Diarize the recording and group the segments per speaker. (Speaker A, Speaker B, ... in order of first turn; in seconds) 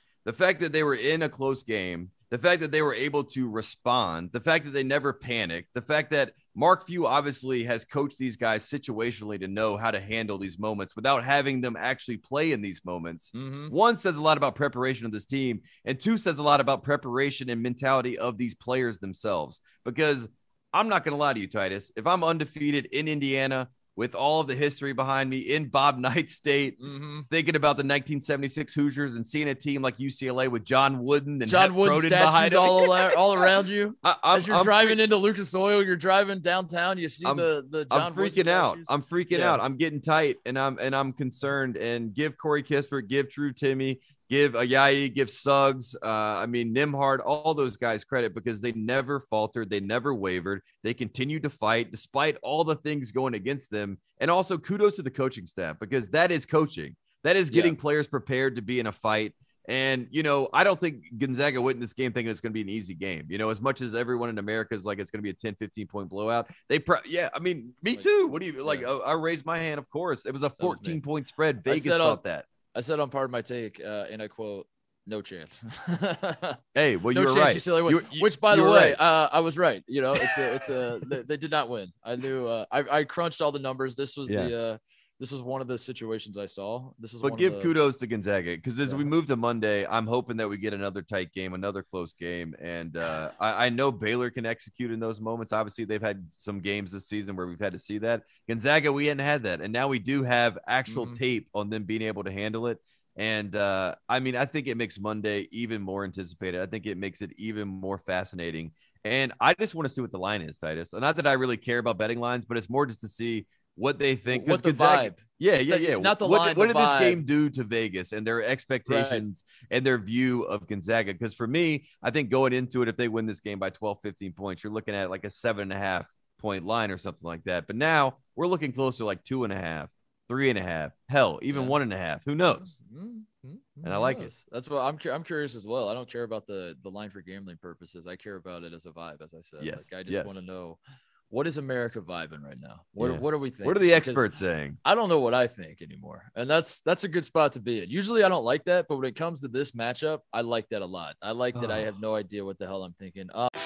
Speaker A: 0.2-32.9, 34.0-35.0, 37.2-72.5, 76.8-79.0, 80.2-81.1, 84.3-84.5, 87.2-132.7, 133.8-134.3, 139.6-140.4, 143.0-144.8, 151.6-151.8
Speaker B: 13.3-13.7, 26.8-27.3, 31.5-39.6, 57.5-57.8, 67.9-68.9, 70.6-71.0, 71.7-72.2, 72.7-76.6, 77.1-87.7, 88.8-89.1, 100.9-101.2, 114.3-117.2, 118.9-119.2, 131.5-131.8, 132.4-140.8, 141.3-144.3, 144.8-153.5